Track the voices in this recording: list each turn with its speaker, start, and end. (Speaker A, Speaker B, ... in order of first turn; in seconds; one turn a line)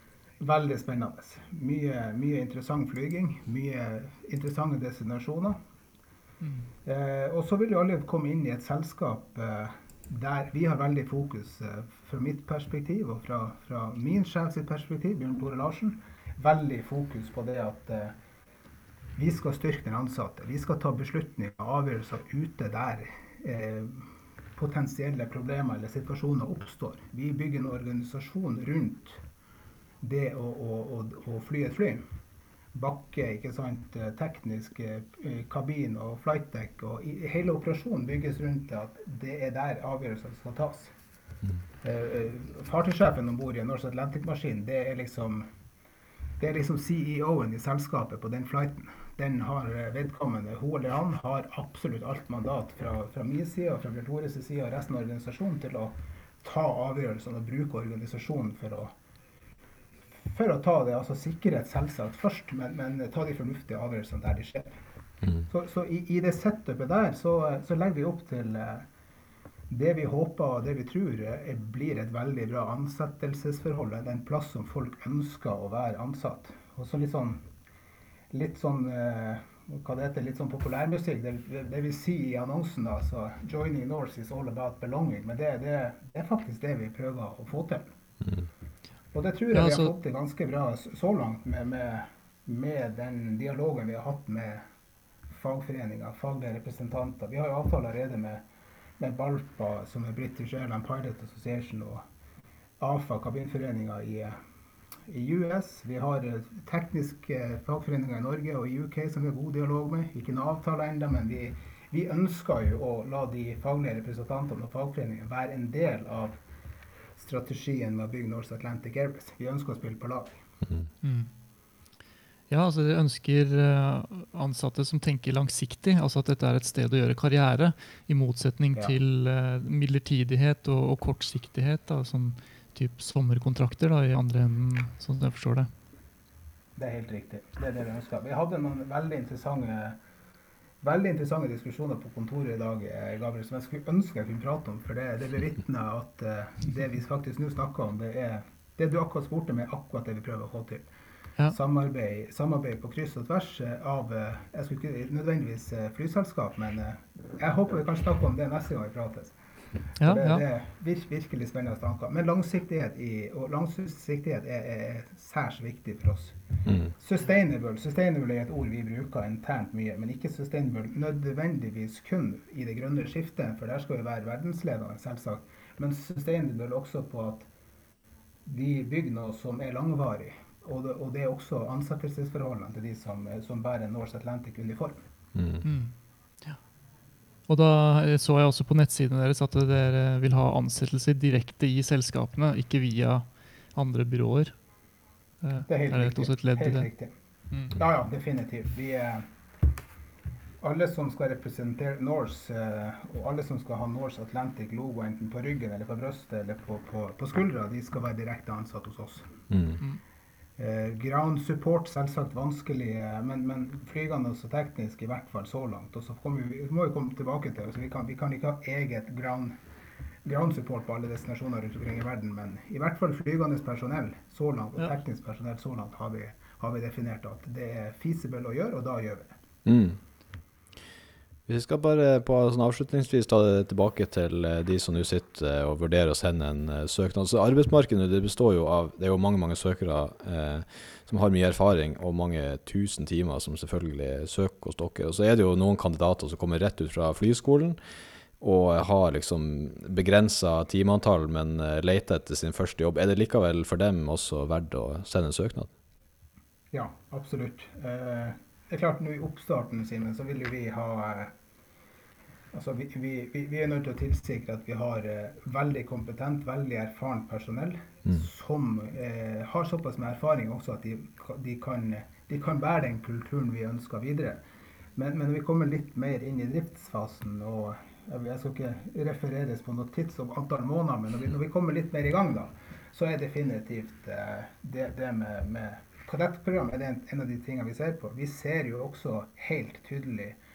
Speaker A: 0.4-5.6
Speaker B: 6.4-6.7
Speaker A: 6.8-18.1
Speaker A: 19.2-29.2
Speaker A: 30.0-32.0
Speaker A: 32.7-40.9
Speaker A: 41.8-45.5
Speaker A: 46.4-58.9
Speaker A: 60.2-64.8
Speaker A: 65.5-68.9
Speaker A: 69.7-77.4
Speaker A: 78.3-87.9
Speaker A: 89.1-94.6
Speaker B: 89.5-89.9
Speaker A: 95.3-98.4
Speaker A: 99.0-102.0
Speaker A: 102.8-104.4
Speaker A: 105.1-116.4
Speaker A: 117.2-120.4
Speaker B: 121.0-121.3
Speaker B: 122.5-135.7
Speaker A: 136.8-140.0
Speaker A: 140.8-150.9
Speaker A: 151.5-159.3
Speaker B: 160.0-160.4
Speaker A: 160.0-166.4
Speaker A: 166.9-177.5
Speaker A: 178.5-185.0
Speaker C: 185.3-185.7
Speaker B: 185.6-186.6
Speaker B: 187.5-194.6
Speaker B: 195.4-197.0
Speaker A: 195.7-197.1
Speaker B: 197.5-197.8
Speaker A: 197.7-199.3
Speaker A: 200.6-209.3
Speaker C: 209.5-209.8
Speaker A: 210.6-219.5
Speaker A: 220.2-229.3
Speaker C: 229.7-230.0
Speaker C: 231.5-247.8
Speaker C: 248.4-255.7
Speaker A: 256.7-261.3
Speaker A: 262.5-274.4
Speaker A: 275.0-290.4